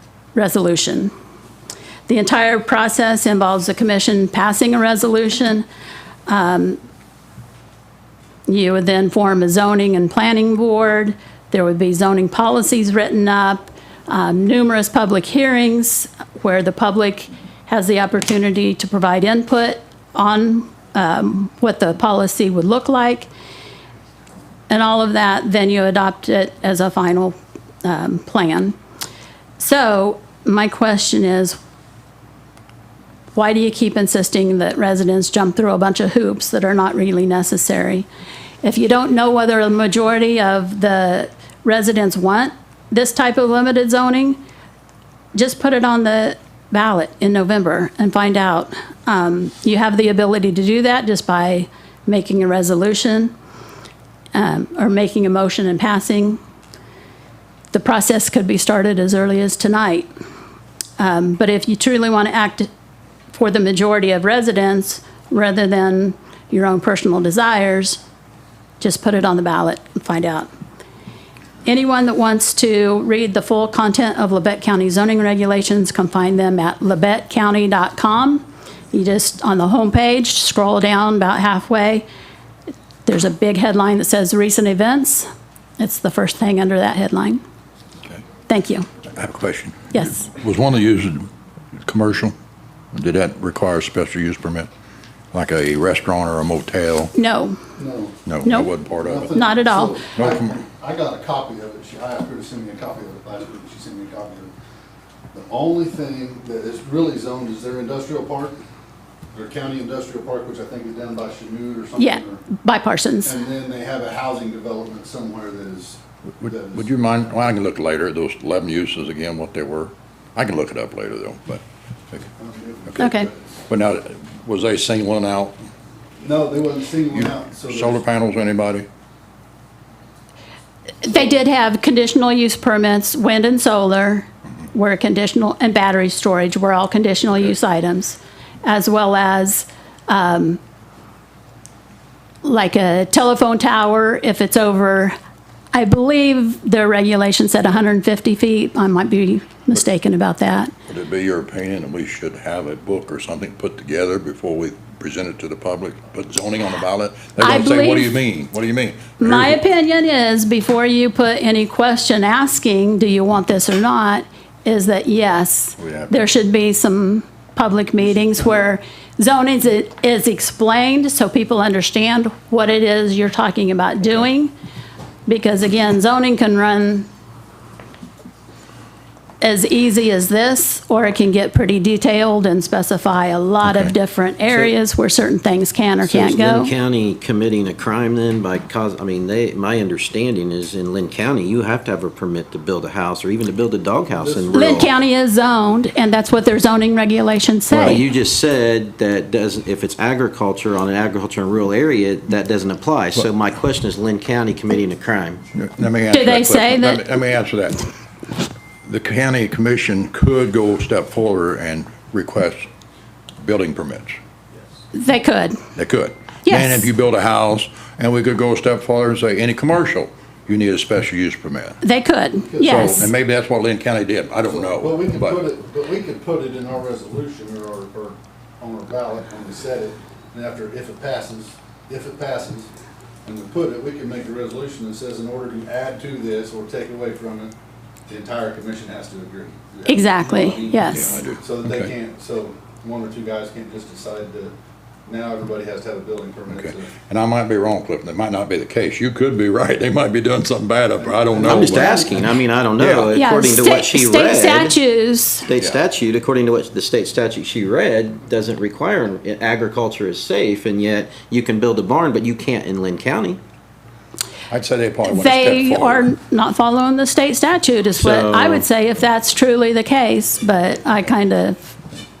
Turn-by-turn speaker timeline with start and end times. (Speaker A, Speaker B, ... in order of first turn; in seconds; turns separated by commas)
Speaker A: 0.3-1.1, Speaker A: 2.1-5.6, Speaker A: 6.3-6.8, Speaker A: 8.5-23.3, Speaker A: 24.7-28.7, Speaker A: 29.6-31.6, Speaker A: 33.3-38.1, Speaker A: 38.6-44.4, Speaker A: 45.3-53.3, Speaker A: 54.3-56.4, Speaker A: 57.7-60.1, Speaker A: 61.0-62.7, Speaker A: 63.3-68.0, Speaker A: 68.8-70.5, Speaker A: 71.7-82.0, Speaker A: 83.0-85.3, Speaker A: 85.8-87.4, Speaker A: 88.5-88.9, Speaker B: 89.1-92.3, Speaker A: 89.9-90.3, Speaker B: 92.9-94.7, Speaker B: 95.3-97.1, Speaker A: 97.1-97.6, Speaker C: 97.8-98.2, Speaker B: 98.2-99.3, Speaker A: 98.4-98.7, Speaker C: 99.0-104.5, Speaker A: 99.3-100.0, Speaker B: 100.2-100.5, Speaker C: 105.3-108.6, Speaker C: 109.3-112.4, Speaker A: 112.0-113.3, Speaker C: 113.2-116.9, Speaker B: 116.4-122.3, Speaker C: 122.4-123.4, Speaker A: 123.0-123.3, Speaker B: 123.7-125.5, Speaker C: 126.2-128.0, Speaker B: 127.1-128.8, Speaker A: 131.0-140.6, Speaker A: 142.4-145.1, Speaker A: 145.7-150.7, Speaker B: 150.9-159.5, Speaker A: 157.4-158.1, Speaker A: 159.2-174.5, Speaker B: 165.8-166.2, Speaker A: 175.3-177.1, Speaker A: 179.4-186.7, Speaker B: 183.6-183.9, Speaker D: 186.0-194.9, Speaker C: 194.1-194.9, Speaker A: 194.5-198.0, Speaker D: 197.7-205.4, Speaker B: 205.5-207.9, Speaker A: 206.1-207.1, Speaker B: 208.8-212.7, Speaker B: 213.4-214.2, Speaker A: 214.9-215.6, Speaker B: 215.7-221.8, Speaker A: 216.4-216.9, Speaker A: 221.8-223.1, Speaker C: 222.4-223.1, Speaker B: 222.6-225.4, Speaker C: 224.5-232.7, Speaker C: 233.2-237.5, Speaker C: 238.1-244.5, Speaker A: 239.8-241.2, Speaker B: 240.9-241.9, Speaker C: 245.1-246.9, Speaker B: 246.5-252.0, Speaker C: 251.0-252.3, Speaker D: 251.4-254.8, Speaker B: 252.8-253.1, Speaker A: 253.1-255.5, Speaker D: 255.4-263.4, Speaker B: 255.5-255.8, Speaker B: 264.5-266.1, Speaker A: 265.1-271.7, Speaker D: 267.9-268.6